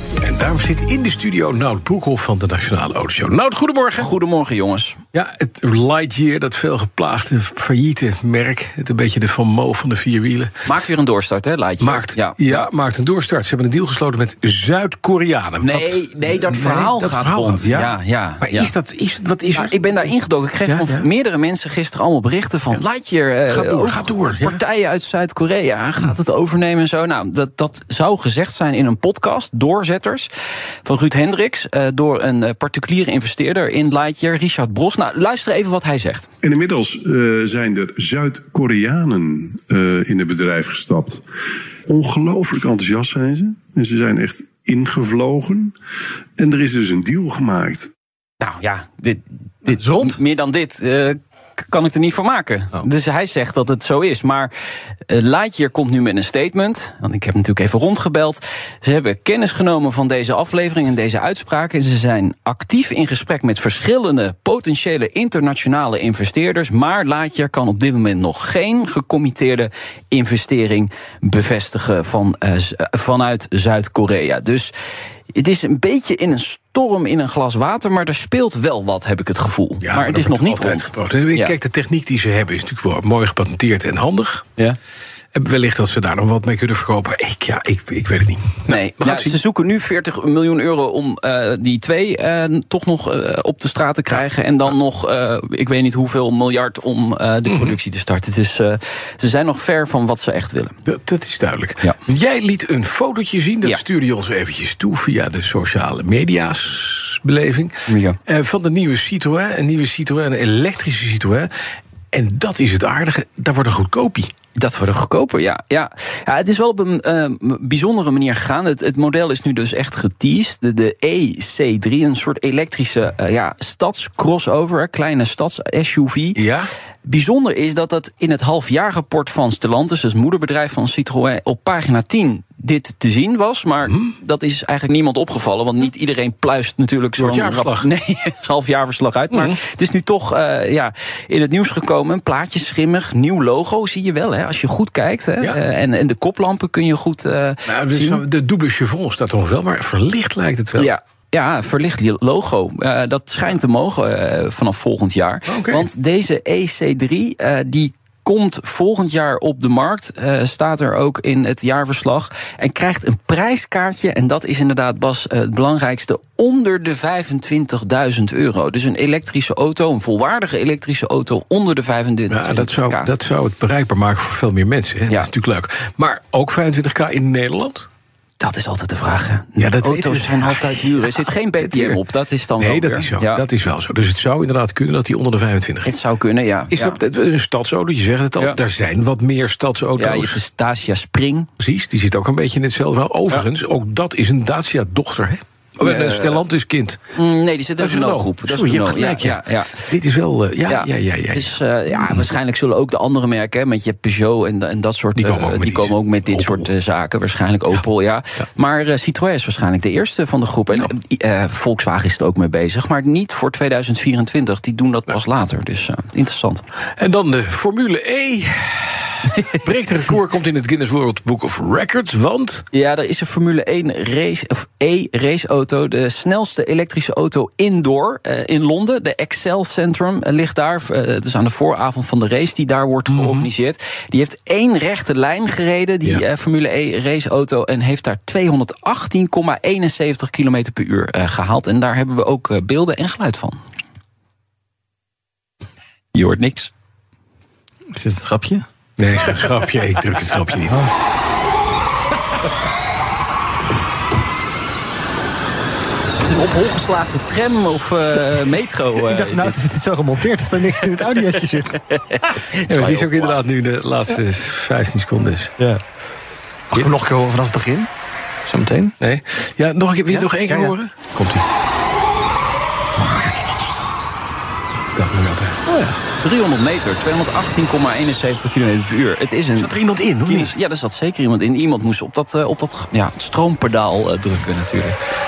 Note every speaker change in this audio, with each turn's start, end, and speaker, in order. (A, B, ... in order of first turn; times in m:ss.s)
0:00.2-0:04.0 A
0:03.9-0:05.0 B
0:05.1-0:10.5 A
0:10.6-0:12.7 B
0:11.8-0:19.8 A
0:15.6-0:18.7 B
0:19.5-0:30.3 B
0:20.7-0:21.0 A
0:23.5-0:24.6 A
0:30.8-0:36.3 B
0:36.4-0:41.2 C
0:41.9-0:45.7 C
0:46.4-0:47.9 C
0:48.4-0:54.5 B
0:49.7-0:50.2 D
0:55.1-1:14.7 B
1:15.3-1:21.5 B
1:19.8-1:24.4 A
1:25.3-1:29.4 A
1:28.7-1:40.8 B
1:37.5-1:37.8 A
1:40.8-1:47.7 A
1:47.9-1:48.2 B
1:48.2-1:51.5 A
1:52.1-1:54.3 A
1:54.5-2:06.5 B
2:06.4-2:06.7 A
2:07.0-2:28.2 B
2:17.2-2:17.9 A
2:19.3-2:19.6 A
2:27.6-2:30.9 A
2:30.7-2:53.1 B
2:35.5-2:35.8 A
2:52.3-2:57.9 A
2:58.4-3:03.4 B
2:59.6-3:02.0 A
3:02.6-3:05.9 A
3:05.8-3:07.0 B
3:06.7-3:10.4 A
3:10.0-3:11.5 B
3:11.6-3:17.0 A
3:15.8-3:16.4 B
3:17.1-3:20.0 B
3:17.8-3:22.2 A
3:20.7-3:36.6 B
3:25.2-3:26.7 A
3:37.0-3:42.6 A
3:42.7-4:03.6 B
3:53.1-3:53.5 A
4:06.1-4:06.7 B
4:07.9-4:08.6 D
4:09.0-4:10.8 A
4:16.2-4:19.6 B
4:19.0-4:21.8 D
4:20.8-4:23.4 B
4:22.6-4:25.5 A
4:26.7-4:27.9 D
4:26.7-4:27.0 A
4:28.4-4:28.9 D
4:29.0-4:31.4 A
4:30.1-4:30.8 D
4:34.9-4:35.9 A
4:36.1-4:45.0 B
4:39.6-4:40.5 A